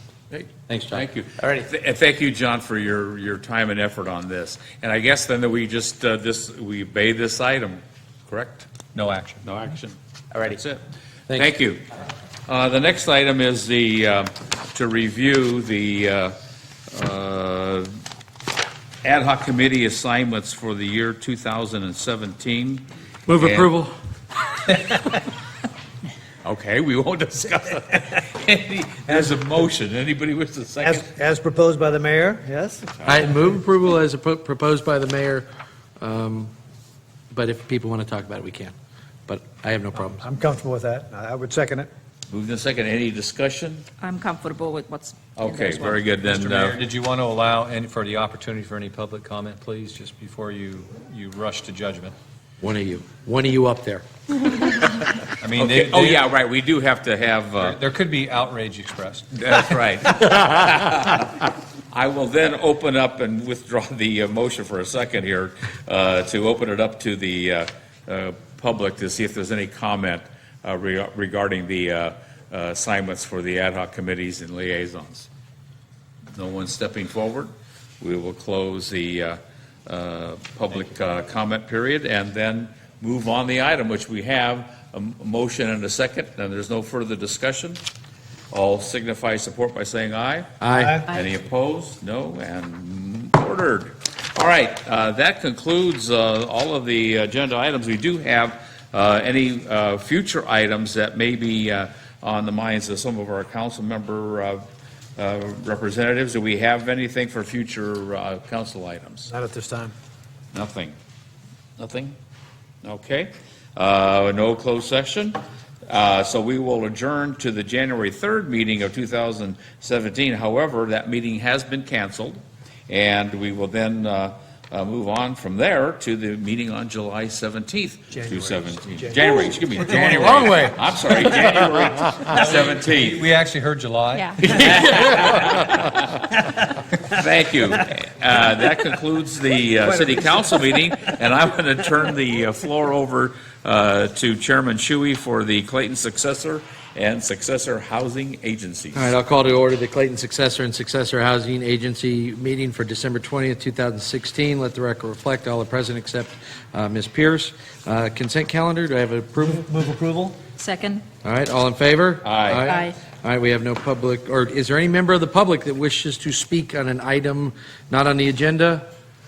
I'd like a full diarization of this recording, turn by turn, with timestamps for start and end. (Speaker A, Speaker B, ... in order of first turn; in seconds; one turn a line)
Speaker A: 0.3-8.7
Speaker B: 0.7-1.6
Speaker C: 8.9-9.4
Speaker A: 9.4-11.8
Speaker A: 12.5-16.3
Speaker A: 16.9-17.9
Speaker A: 19.0-23.7
Speaker B: 23.3-23.9
Speaker A: 26.4-31.1
Speaker D: 29.1-29.4
Speaker D: 30.8-32.9
Speaker A: 32.9-33.3
Speaker B: 33.0-35.5
Speaker B: 36.0-36.5
Speaker B: 37.3-38.7
Speaker B: 39.3-40.2
Speaker D: 40.2-41.9
Speaker A: 42.3-43.8
Speaker E: 44.0-46.0
Speaker A: 45.4-46.8
Speaker C: 46.1-52.1
Speaker B: 52.6-54.0
Speaker C: 55.4-56.3
Speaker A: 55.5-57.8
Speaker C: 57.6-59.6
Speaker A: 59.3-75.3
Speaker A: 76.3-87.8
Speaker A: 88.5-90.5
Speaker B: 90.6-91.0
Speaker D: 90.7-91.0
Speaker A: 91.1-104.6
Speaker A: 105.2-109.3
Speaker D: 109.3-109.9
Speaker A: 110.5-111.0
Speaker A: 111.8-112.2
Speaker A: 112.8-133.2
Speaker D: 128.1-130.2
Speaker B: 129.8-132.3
Speaker C: 132.2-135.0
Speaker E: 134.1-134.4
Speaker A: 134.4-136.2
Speaker B: 134.5-136.0
Speaker A: 137.1-149.1
Speaker D: 139.8-140.9
Speaker B: 148.9-159.6
Speaker D: 159.4-160.4
Speaker E: 160.6-161.0
Speaker B: 161.2-168.8
Speaker A: 162.2-162.7
Speaker E: 162.6-163.0